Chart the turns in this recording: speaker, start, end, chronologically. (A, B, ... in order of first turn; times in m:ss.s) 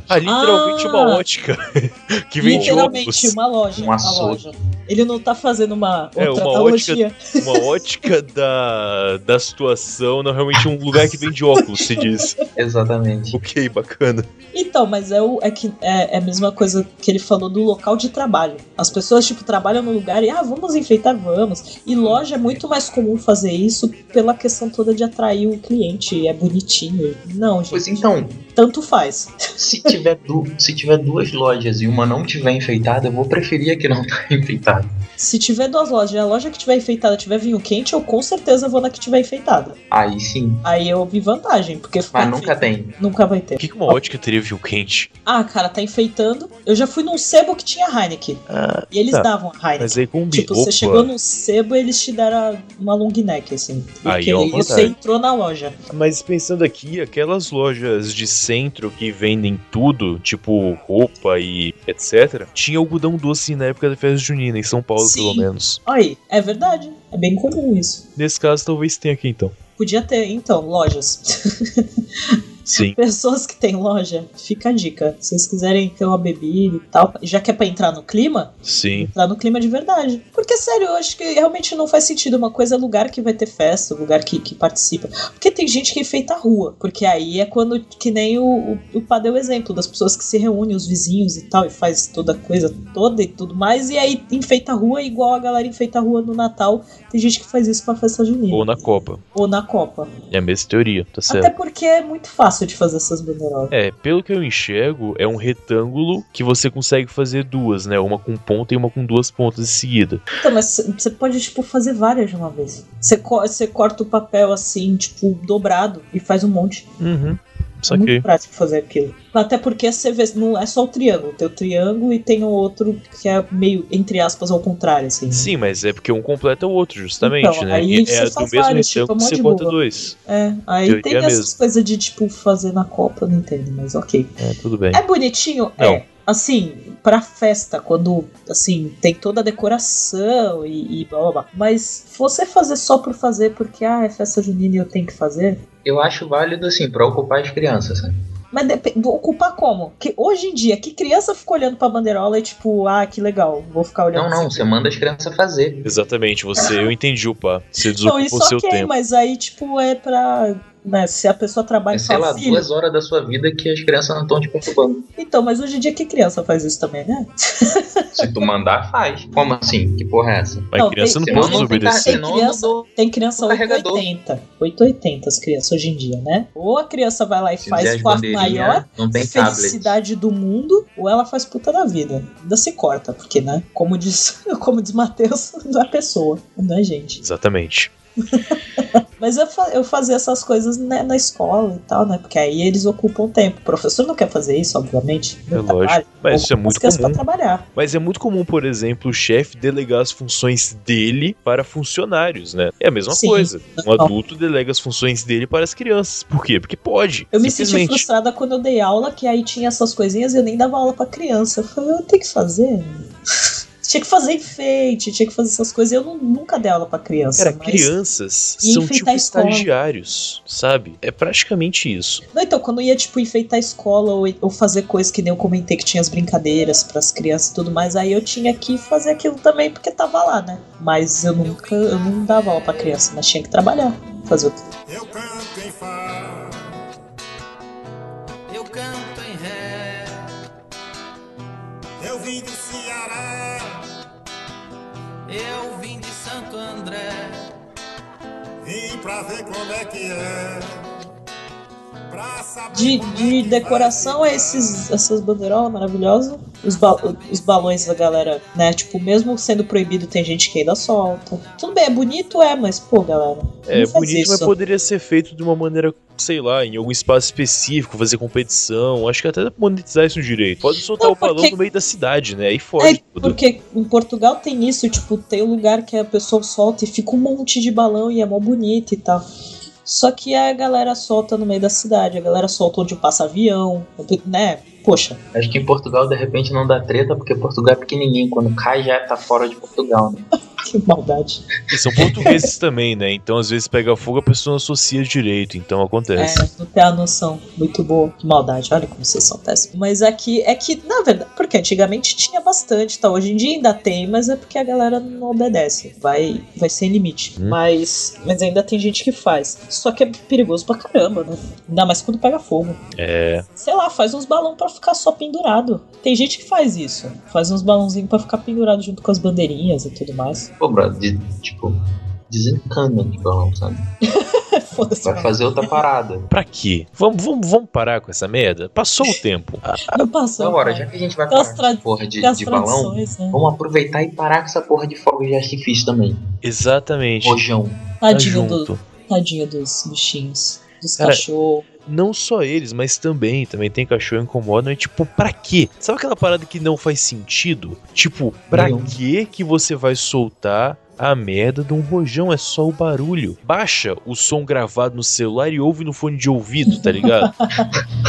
0:00.1-0:03.3 A
0:00.2-0:01.2 B
0:02.4-0:07.6 B
0:02.5-0:02.9 C
0:03.8-0:04.5 C
0:06.2-0:12.4 A
0:11.8-0:12.1 B
0:12.6-0:13.4 C
0:13.3-0:14.3 A
0:14.5-0:29.9 B
0:27.7-0:28.4 C
0:29.6-0:34.9 C
0:35.2-0:39.8 B
0:39.9-0:40.6 C
0:40.6-0:44.0 B
0:42.1-0:43.0 C
0:43.6-0:45.1 A
0:45.2-0:55.8 B
0:48.5-0:49.3 A
0:49.8-0:51.1 A
0:54.0-0:54.9 A
0:54.4-0:54.9 C
0:55.9-1:05.8 A
1:05.0-1:08.0 B
1:08.2-1:09.6 A
1:09.8-1:12.4 B
1:12.6-1:13.0 A
1:12.9-1:38.7 B
1:18.6-1:19.1 A
1:38.5-1:39.2 A
1:39.3-1:40.1 B
1:40.3-1:41.5 A
1:41.3-1:43.7 B
1:43.7-1:50.2 A
1:50.4-1:56.9 B
1:57.0-1:58.2 A
1:57.9-2:05.5 B
2:05.3-2:10.2 A
2:07.2-2:14.4 B
2:10.9-2:11.5 A
2:14.4-2:15.0 A
2:14.9-2:25.6 B
2:15.8-2:16.0 A
2:25.8-2:28.2 C
2:28.5-2:34.7 B
2:34.1-2:35.8 C
2:35.8-2:38.9 A
2:38.0-2:42.7 B
2:41.9-2:45.1 C
2:45.2-2:48.2 B
2:48.2-2:50.7 C
2:50.7-2:52.2 A
2:50.7-3:07.2 B
2:51.2-2:54.1 C
2:57.6-3:00.0 C
3:07.2-3:07.9 A
3:08.3-3:17.6 B
3:15.5-3:17.2 A
3:17.8-3:28.0 A
3:23.1-3:24.1 B
3:27.3-3:33.1 B
3:33.8-3:37.9 B
3:37.4-3:42.2 A
3:38.6-3:39.7 B
3:42.3-3:54.6 B
3:54.9-3:56.7 D
3:58.5-4:00.2 E
4:02.0-4:03.8 D
4:05.3-4:07.4 E
4:08.6-4:10.8 D
4:12.1-4:14.8 D
4:12.7-4:24.5 B
4:23.7-4:33.4 A
4:31.0-4:31.5 B
4:32.8-4:39.2 B
4:39.8-4:45.2 B
4:45.3-4:50.2 C
4:50.6-4:51.4 B
4:51.7-4:56.4 A
4:56.2-5:12.8 B
5:13.0-5:13.4 A
5:13.6-5:20.5 B
5:20.6-5:23.9 C
5:24.0-5:25.7 B
5:24.8-5:26.3 C
5:26.3-5:30.0 A
5:29.9-5:33.4 B
5:30.4-5:36.2 C
5:36.4-5:37.4 A
5:37.2-5:37.9 C
5:38.0-5:41.6 B
5:38.1-5:38.8 A
5:41.0-5:41.2 A
5:41.8-5:57.3 A
5:48.5-5:48.9 C
5:56.7-5:57.7 B